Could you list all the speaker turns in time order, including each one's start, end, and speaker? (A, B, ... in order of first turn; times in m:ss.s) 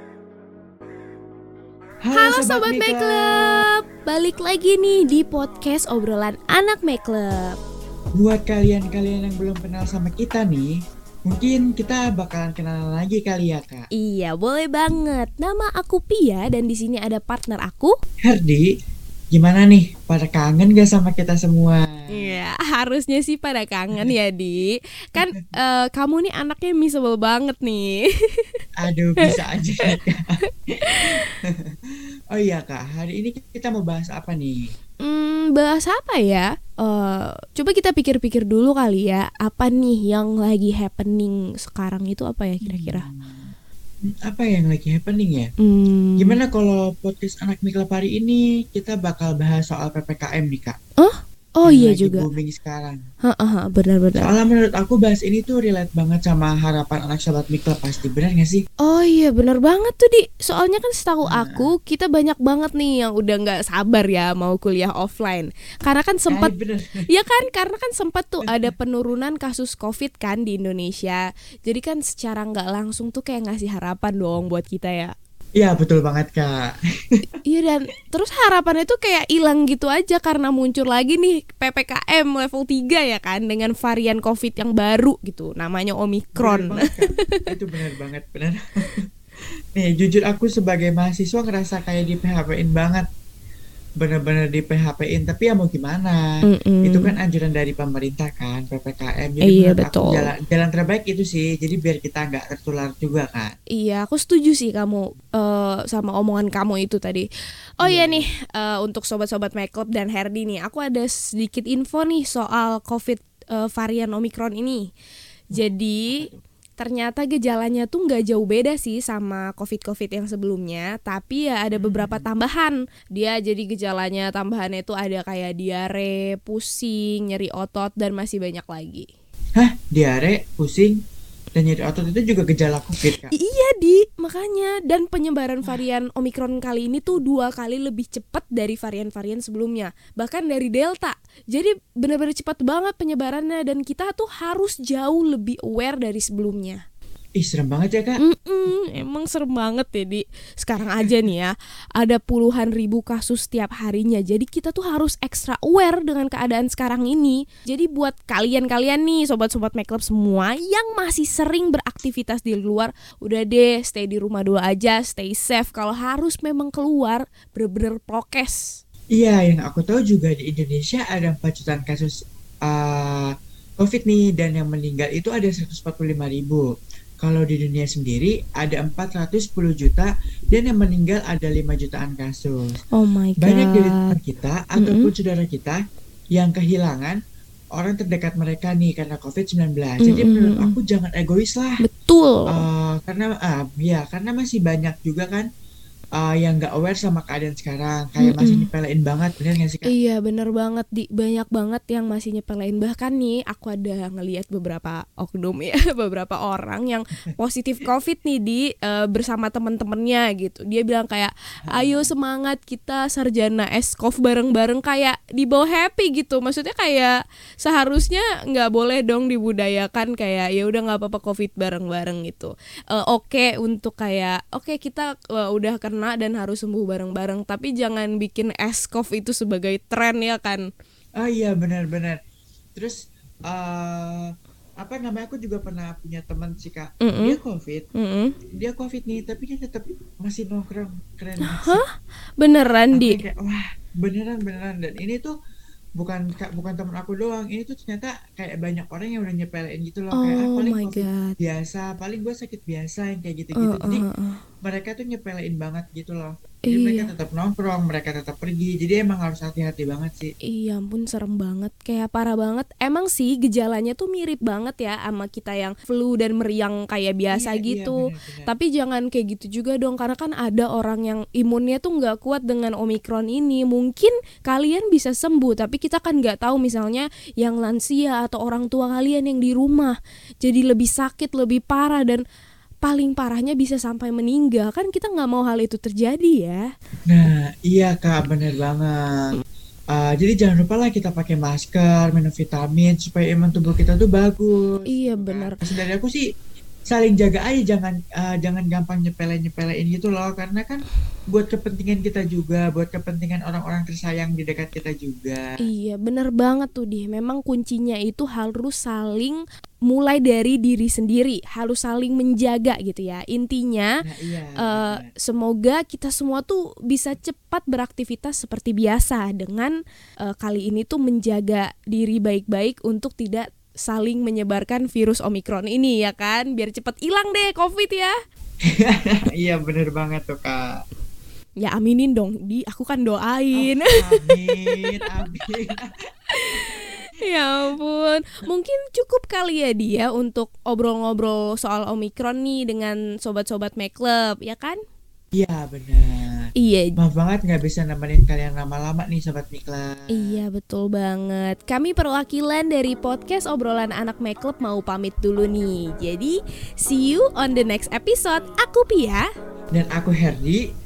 0:02.0-0:03.6 A
0:02.1-0:07.6 B
0:08.1-0:10.7 A
0:11.3-0:13.9 A
0:13.9-0:18.0 B
0:18.2-0:18.7 A
0:19.3-0:22.3 A
0:22.1-0:28.4 B
0:28.8-0:30.4 A
0:31.1-0:31.7 A
0:32.3-0:34.6 A
0:35.0-0:43.1 B
0:42.6-0:43.5 A
0:44.0-0:45.5 A
0:45.6-0:46.4 B
0:46.2-0:50.8 A
0:51.0-0:52.3 B
0:51.6-0:53.0 A
0:53.2-0:54.3 B
0:54.2-0:58.6 A
0:58.8-1:06.5 B
1:01.2-1:01.7 A
1:06.3-1:07.0 A
1:07.1-1:15.1 B
1:08.4-1:08.7 A
1:15.6-1:16.7 A
1:17.4-1:27.4 B
1:26.4-1:29.0 A
1:29.7-1:33.0 A
1:34.0-1:36.3 A
1:36.4-1:37.1 B
1:36.8-1:43.5 A
1:39.4-1:40.3 B
1:43.7-1:47.3 B
1:47.8-1:54.9 B
1:47.8-1:48.3 A
1:55.5-2:09.1 B
1:55.5-1:56.4 A
2:01.8-2:02.3 A
2:09.6-2:11.0 A
2:11.5-2:13.3 A
2:13.3-2:26.8 B
2:27.4-2:28.2 A
2:28.2-2:48.6 B
2:49.1-2:52.1 A
2:52.7-2:56.6 A
2:57.2-3:02.8 A
3:02.9-3:04.2 B
3:03.4-3:05.8 A
3:04.8-3:05.1 B
3:06.3-3:07.2 A
3:07.7-3:11.8 A
3:10.0-3:10.8 B
3:11.8-3:12.6 B
3:12.5-3:15.4 A
3:16.2-3:19.9 A
3:18.2-3:18.7 B
3:19.8-3:50.6 B
3:31.6-3:32.1 A
3:51.2-3:52.2 A
3:53.5-3:57.8 A
3:57.0-3:57.4 B
3:57.9-3:58.3 B
3:58.6-4:01.8 A
4:01.4-4:03.2 B
4:02.9-4:05.3 A
4:06.0-4:14.0 A
4:10.1-4:11.3 B
4:13.5-4:14.4 B
4:14.6-4:20.3 A
4:16.6-4:17.1 B
4:20.4-4:42.2 B
4:27.3-4:28.5 A
4:42.8-4:46.6 B
4:47.1-4:49.4 A
4:49.9-4:56.2 A
4:54.9-4:55.5 B
4:56.9-5:05.4 A
5:05.6-5:13.9 B
5:14.0-5:15.1 A
5:14.6-5:19.7 B
5:20.3-5:28.1 B
5:28.7-5:30.8 A
5:31.6-5:35.0 B
5:33.5-5:35.9 A
5:36.3-5:44.8 B
5:45.3-5:50.4 A
5:46.6-5:46.9 B
5:50.1-5:59.2 B
5:59.7-6:00.6 A